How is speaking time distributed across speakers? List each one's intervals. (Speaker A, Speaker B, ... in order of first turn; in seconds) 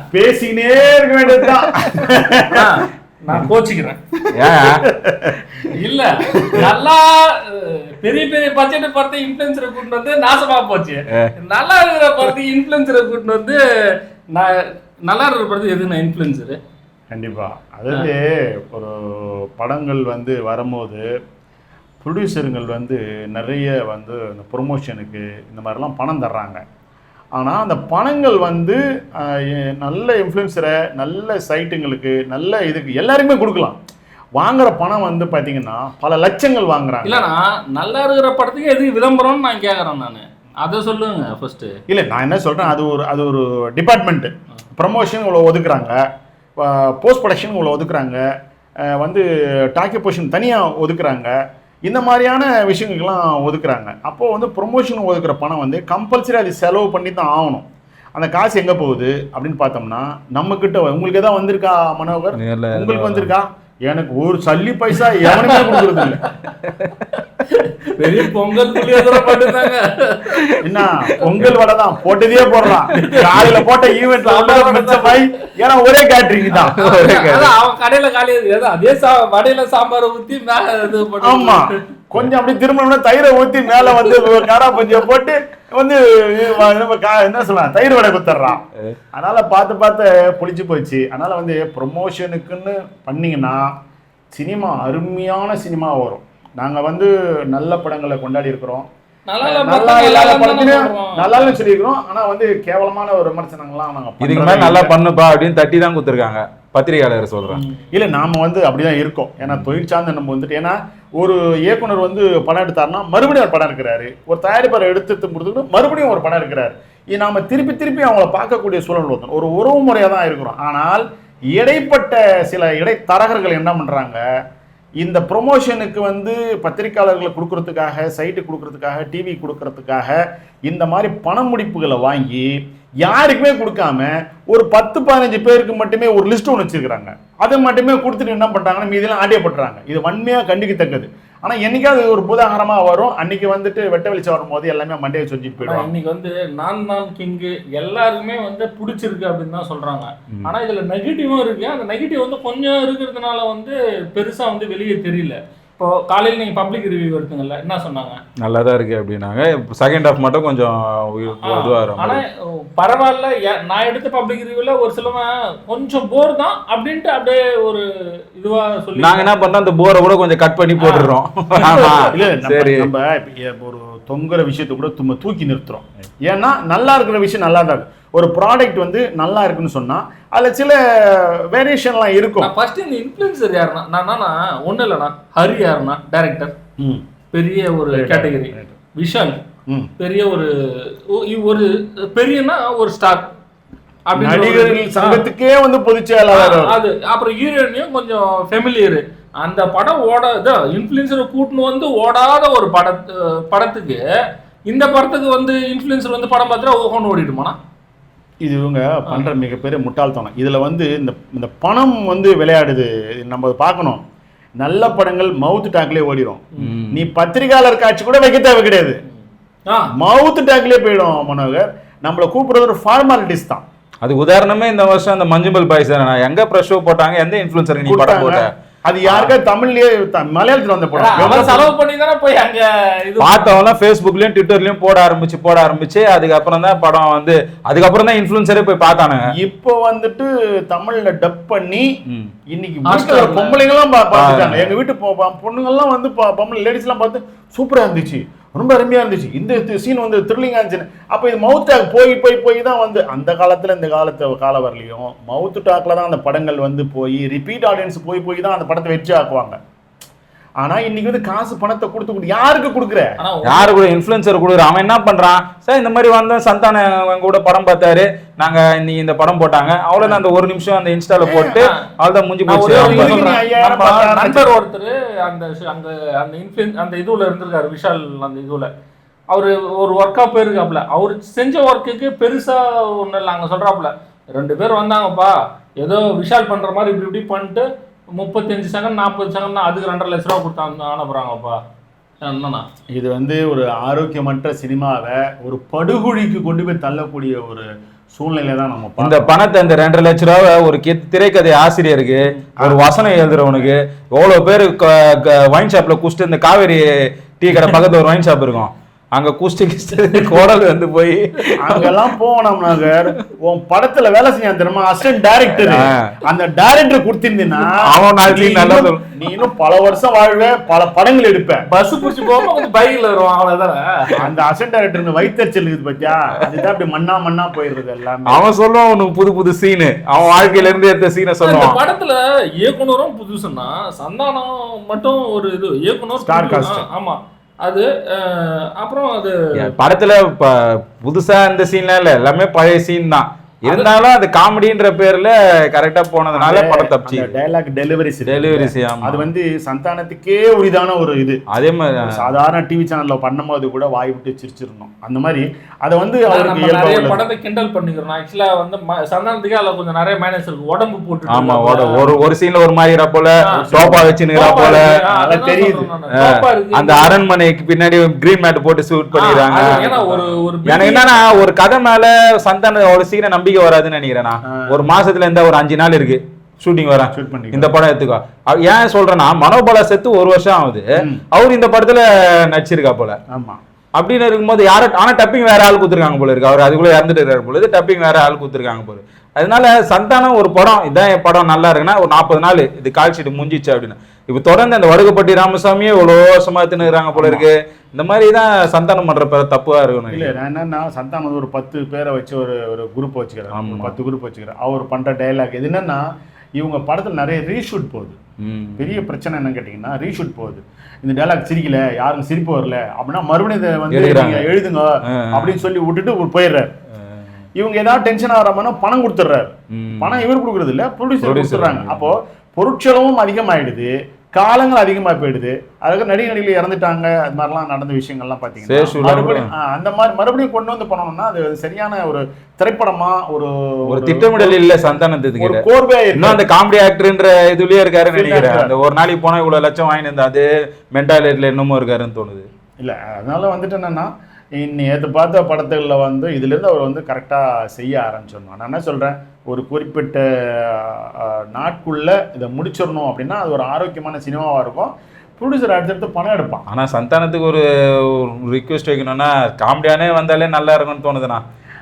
Speaker A: 0.1-2.8, 4.5-5.6, 6.3-6.7, 17.1-21.0, 22.0-26.6, 27.4-33.8, 34.4-37.3, 41.9-46.0, 46.6-48.2, 48.8-57.6, 58.1-66.2, 70.6-76.8, 81.2-88.6, 89.2-93.7, 94.3-98.8, 99.4-104.9, 107.9-124.2, 125.0-145.9, 172.1-182.5, 187.9-188.8, 194.1-196.8, 208.4-214.0, 214.6-219.0, 219.9-223.6, 227.8-231.6, 239.4-241.9, 242.5-259.6, 260.6-263.1, 270.0-270.2, 271.2-271.6, 272.7-274.5, 292.9-299.4, 302.6-302.9, 311.6-321.6, 324.2-328.4, 336.2-336.9, 346.3-351.4, 352.0-357.2, 363.5-364.1, 365.1-365.9, 377.1-377.8, 383.3-383.6, 397.1-397.5, 400.1-406.0, 406.6-408.2, 408.8-416.7, 417.6-434.6, 435.4-436.4, 438.1-438.7, 442.8-456.6
Speaker B: 2.5-4.0, 5.7-16.6, 37.0-41.7, 65.2-66.6, 67.1-70.4, 72.8-75.2, 76.5-81.7, 83.8-84.4, 99.3-101.6, 107.5-107.8, 145.6-158.2, 161.4-167.8, 168.4-169.3, 170.8-172.1, 182.4-186.5, 187.3-189.4, 190.0-190.5, 191.1-193.2, 194.1-195.3, 196.3-204.0, 204.7-207.6, 209.1-209.3, 219.2-219.9, 230.9-233.6, 242.8-243.6, 263.2-263.9, 272.5-278.7, 279.3-287.6, 288.1-291.6, 292.2-292.6, 310.0-310.5, 321.7-324.2, 331.4-339.5, 343.6-343.9, 356.3-362.1, 363.5-367.2, 369.1-371.5
Speaker C: 4.3-4.8, 62.4-63.3, 66.6-67.1, 68.0-69.7, 70.3-70.6, 71.1-71.5, 72.7-73.6, 76.7-77.5, 104.2-107.6, 158.4-162.2, 168.9-172.9, 216.6-217.1, 224.0-228.5, 229.0-229.3, 231.1-231.6, 233.2-239.3, 244.1-244.7, 263.4-273.3, 299.0-306.8, 307.4-311.9, 315.6-316.1, 317.8-319.0, 322.0-322.6, 328.3-331.8, 339.5-347.3, 348.3-349.3, 351.5-352.1, 361.3-364.8, 366.1-383.2, 384.0-400.3, 403.5-403.9, 408.4-409.0, 413.9-414.5, 415.1-415.6, 419.7-420.2, 421.2-422.1, 428.7-429.5, 433.9-435.6, 436.1-442.4, 456.7-461.4